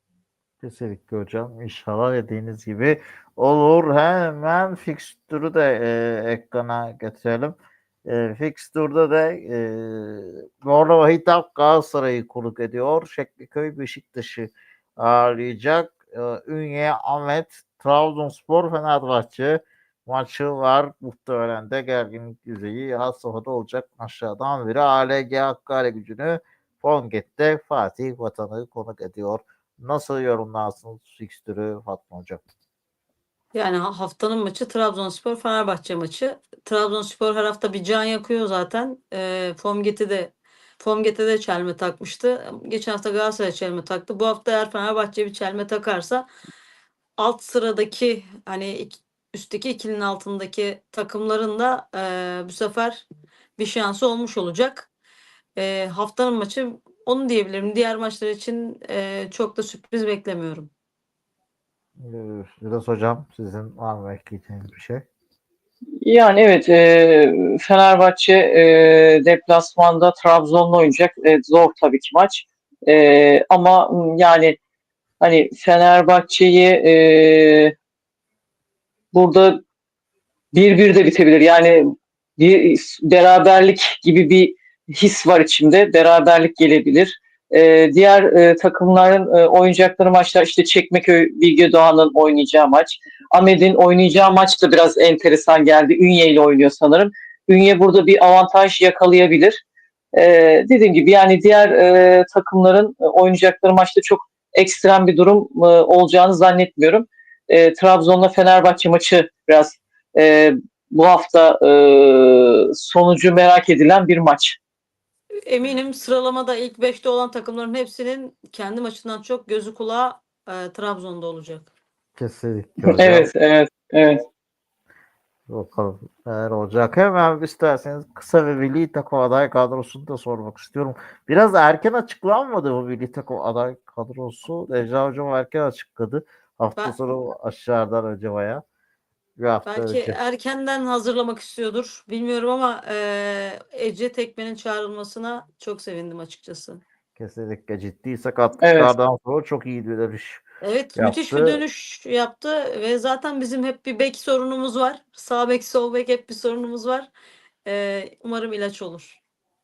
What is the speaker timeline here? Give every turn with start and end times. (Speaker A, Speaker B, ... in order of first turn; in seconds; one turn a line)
Speaker A: 0.6-32.4
Speaker B: 33.5-46.3
Speaker B: 47.2-53.0
Speaker B: 53.6-54.9
Speaker B: 55.5-60.7
Speaker A: 62.0-65.0
Speaker C: 66.0-74.6
Speaker C: 75.2-77.7
Speaker C: 79.1-79.6
Speaker C: 80.5-99.6
Speaker C: 100.1-114.6
Speaker B: 115.5-121.7
Speaker A: 122.2-123.3
Speaker C: 122.8-124.2
Speaker A: 125.5-138.6
Speaker A: 139.4-140.2
Speaker B: 139.7-146.8
Speaker A: 147.2-150.4
Speaker C: 148.6-148.9
Speaker B: 150.6-157.1
Speaker A: 150.9-151.6
Speaker B: 157.7-159.2